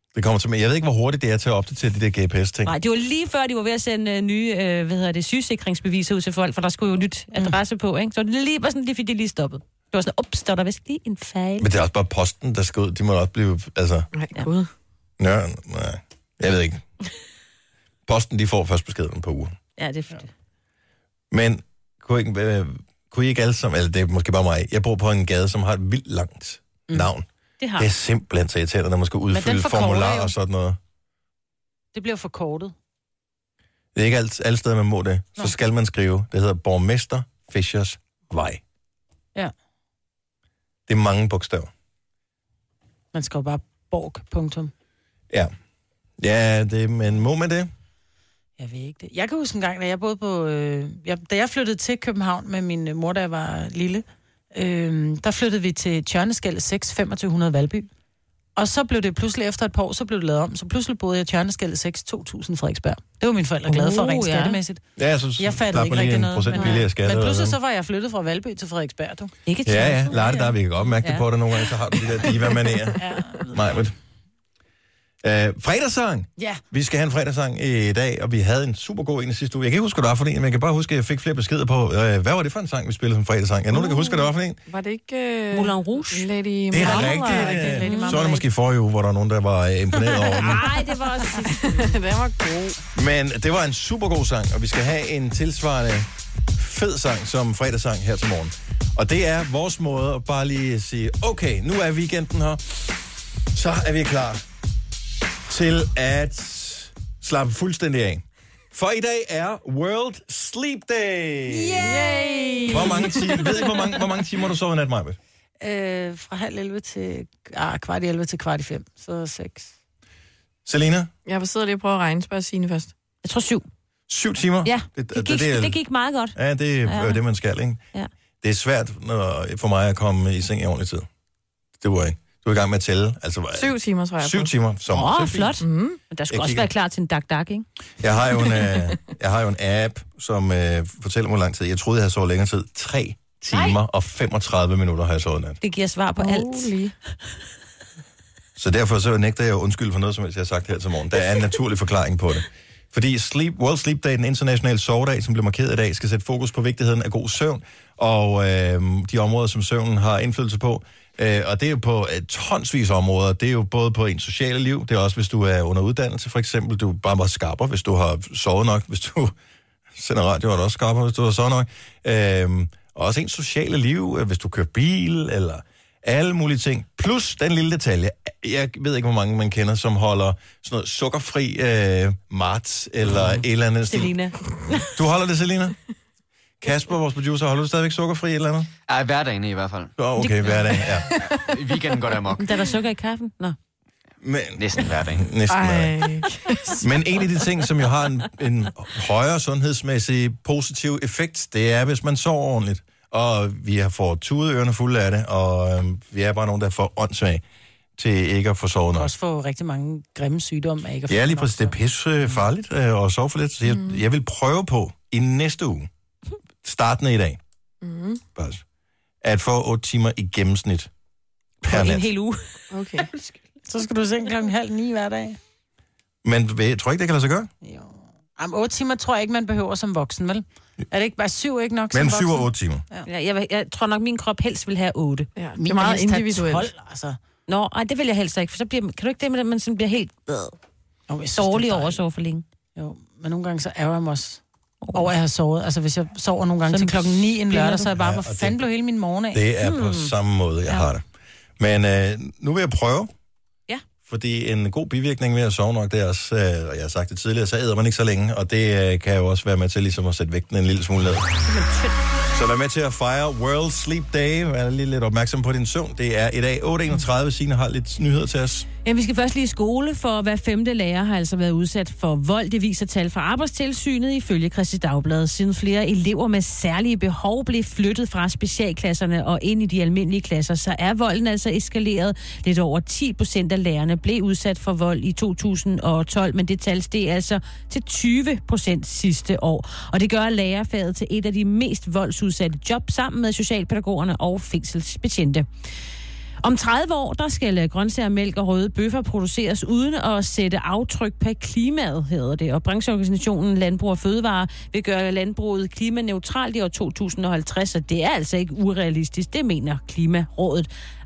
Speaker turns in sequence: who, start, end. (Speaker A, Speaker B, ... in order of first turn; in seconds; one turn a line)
Speaker A: 0.1-2.7
Speaker B: 2.6-11.7
Speaker A: 11.6-14.1
Speaker C: 14.1-14.7
Speaker A: 15.2-16.8
Speaker A: 18.1-19.6
Speaker B: 19.8-20.3
Speaker A: 21.3-27.3
Speaker B: 27.6-27.9
Speaker A: 27.8-30.8
Speaker D: 29.3-30.3
Speaker D: 31.9-32.7
Speaker A: 33.9-38.6
Speaker A: 40.9-41.7
Speaker D: 43.1-44.7
Speaker A: 46.2-47.7
Speaker D: 48.6-57.9
Speaker D: 58.5-64.8
Speaker B: 63.7-64.6
Speaker A: 65.0-67.5
Speaker D: 65.4-69.3
Speaker B: 66.5-66.8
Speaker B: 69.5-70.3
Speaker A: 69.6-73.9
Speaker D: 70.1-70.5
Speaker D: 73.0-73.5
Speaker A: 75.2-84.6
Speaker C: 83.7-84.1
Speaker C: 84.7-87.8
Speaker B: 85.5-86.3
Speaker A: 86.7-90.7
Speaker B: 86.8-88.3
Speaker D: 86.8-88.3
Speaker B: 90.2-91.9
Speaker C: 91.5-92.8
Speaker A: 92.9-102.6
Speaker A: 103.5-104.4
Speaker A: 105.5-111.8
Speaker D: 111.5-113.4
Speaker C: 111.8-113.3
Speaker A: 112.7-115.2
Speaker D: 115.6-119.7
Speaker A: 120.7-121.1
Speaker C: 121.2-122.9
Speaker B: 123.2-123.7
Speaker A: 124.1-125.8
Speaker B: 124.6-127.2
Speaker A: 126.3-127.8
Speaker A: 128.4-131.1
Speaker A: 131.8-135.6
Speaker C: 133.5-134.5
Speaker B: 134.9-137.7
Speaker C: 135.6-136.0
Speaker A: 136.3-136.7
Speaker A: 138.0-145.6
Speaker B: 145.6-146.7
Speaker C: 146.2-146.9
Speaker A: 148.6-169.3
Speaker A: 169.9-184.2
Speaker B: 183.9-184.8
Speaker A: 184.9-185.8
Speaker A: 186.6-188.7
Speaker E: 188.9-189.9
Speaker A: 190.0-191.1
Speaker B: 190.2-190.9
Speaker E: 191.4-192.6
Speaker B: 192.4-193.6
Speaker A: 194.2-196.2
Speaker E: 194.6-195.4
Speaker C: 195.5-196.9
Speaker A: 196.8-207.4
Speaker A: 208.0-209.1
Speaker D: 208.9-211.8
Speaker A: 211.1-215.9
Speaker A: 216.6-217.4
Speaker C: 217.8-218.2
Speaker A: 218.3-218.6
Speaker A: 219.2-220.9
Speaker A: 221.6-222.1
Speaker B: 221.7-223.3
Speaker C: 222.7-223.1
Speaker D: 223.7-225.4
Speaker A: 226.2-227.5
Speaker D: 227.6-233.1
Speaker A: 231.9-232.8
Speaker B: 233.1-235.3
Speaker C: 235.3-236.7
Speaker D: 235.6-237.2
Speaker B: 237.5-240.5
Speaker D: 241.1-242.0
Speaker B: 241.3-242.4
Speaker D: 242.8-244.4
Speaker B: 244.8-245.1
Speaker D: 244.9-249.4
Speaker B: 246.7-247.9
Speaker A: 248.0-248.6
Speaker A: 249.3-251.0
Speaker B: 249.6-250.1
Speaker A: 251.6-253.1
Speaker A: 254.1-261.3
Speaker B: 261.4-262.0
Speaker A: 262.3-268.7
Speaker B: 268.8-295.5
Speaker B: 296.4-310.7